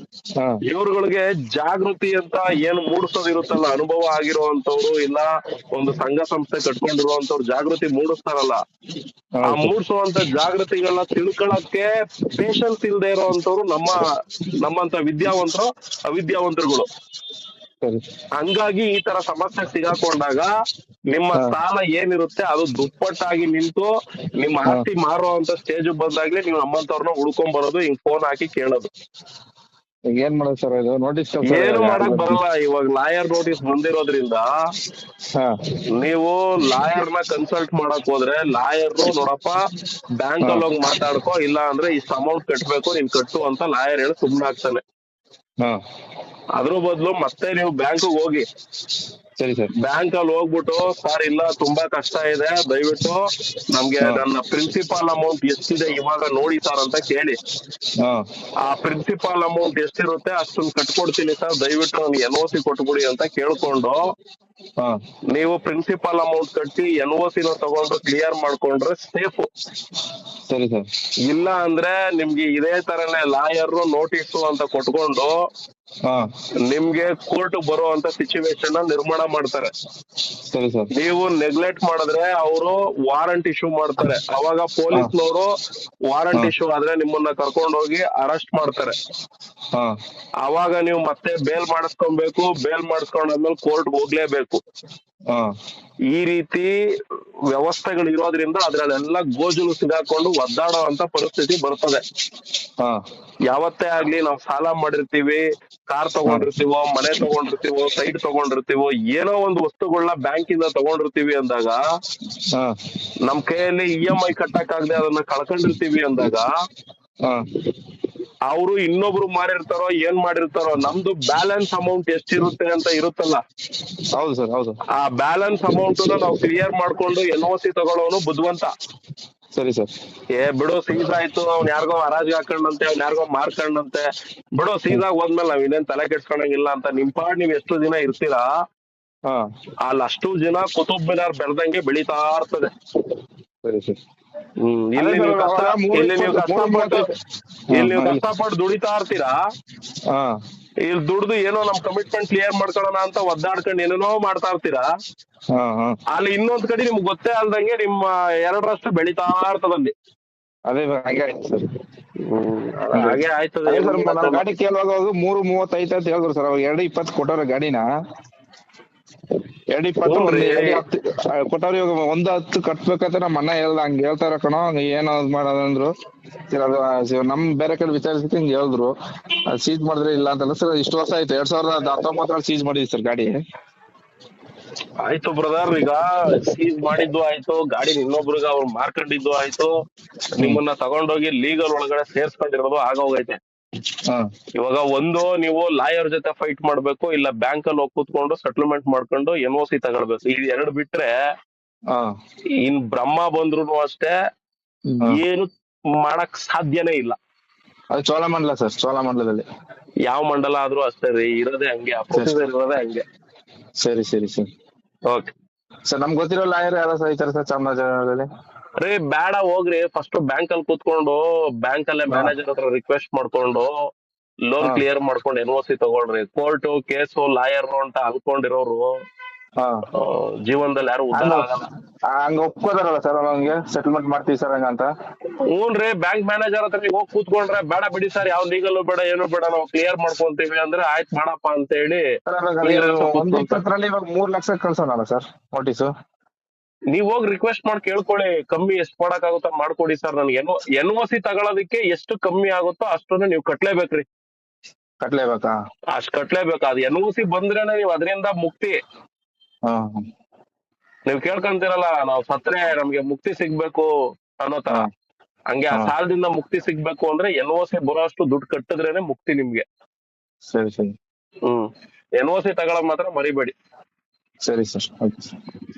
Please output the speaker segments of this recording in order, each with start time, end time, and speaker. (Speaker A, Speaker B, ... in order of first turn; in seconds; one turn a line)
Speaker A: 0.7-8.6
Speaker B: 9.4-9.7
Speaker A: 9.4-16.9
Speaker A: 18.4-20.5
Speaker A: 21.1-28.9
Speaker B: 30.1-32.4
Speaker A: 31.4-34.5
Speaker A: 35.9-39.6
Speaker A: 40.2-44.8
Speaker A: 46.6-48.5
Speaker B: 49.4-49.7
Speaker A: 49.8-57.4
Speaker A: 58.6-64.0
Speaker A: 65.3-69.5
Speaker B: 70.5-70.8
Speaker A: 71.3-75.3
Speaker A: 76.7-79.7
Speaker B: 80.5-80.9
Speaker A: 80.9-85.5
Speaker A: 86.1-89.0
Speaker A: 90.4-94.6
Speaker A: 96.1-96.7
Speaker A: 97.5-102.0
Speaker A: 103.5-111.8
Speaker A: 113.2-116.5
Speaker A: 118.5-123.4
Speaker B: 124.2-124.8
Speaker A: 125.0-128.7
Speaker B: 129.6-129.9
Speaker A: 130.4-138.5
Speaker A: 139.9-142.7
Speaker B: 143.6-144.0
Speaker A: 144.6-147.1
Speaker B: 145.0-147.1
Speaker B: 147.7-148.2
Speaker A: 147.7-149.4
Speaker A: 150.9-154.9
Speaker B: 155.5-156.0
Speaker A: 156.1-159.9
Speaker B: 160.7-161.7
Speaker A: 162.2-164.4
Speaker B: 162.9-167.8
Speaker B: 169.7-175.9
Speaker A: 170.1-170.8
Speaker B: 176.5-178.9
Speaker B: 179.5-183.3
Speaker A: 185.0-189.7
Speaker A: 190.3-193.4
Speaker A: 194.6-201.1
Speaker A: 202.6-204.1
Speaker A: 204.9-207.2
Speaker B: 207.9-209.4
Speaker A: 210.1-213.0
Speaker B: 213.8-214.5
Speaker B: 215.9-218.3
Speaker A: 218.8-223.7
Speaker A: 224.5-228.9
Speaker B: 229.6-229.8
Speaker A: 229.9-231.6
Speaker B: 231.1-231.5
Speaker B: 232.1-234.9
Speaker A: 235.5-242.1
Speaker B: 242.3-245.9
Speaker A: 242.6-243.6
Speaker A: 246.9-254.1
Speaker B: 255.0-255.6
Speaker A: 255.9-258.8
Speaker B: 259.7-260.0
Speaker A: 261.1-264.8
Speaker A: 265.5-269.6
Speaker B: 270.5-270.9
Speaker A: 272.2-273.5
Speaker B: 274.5-275.4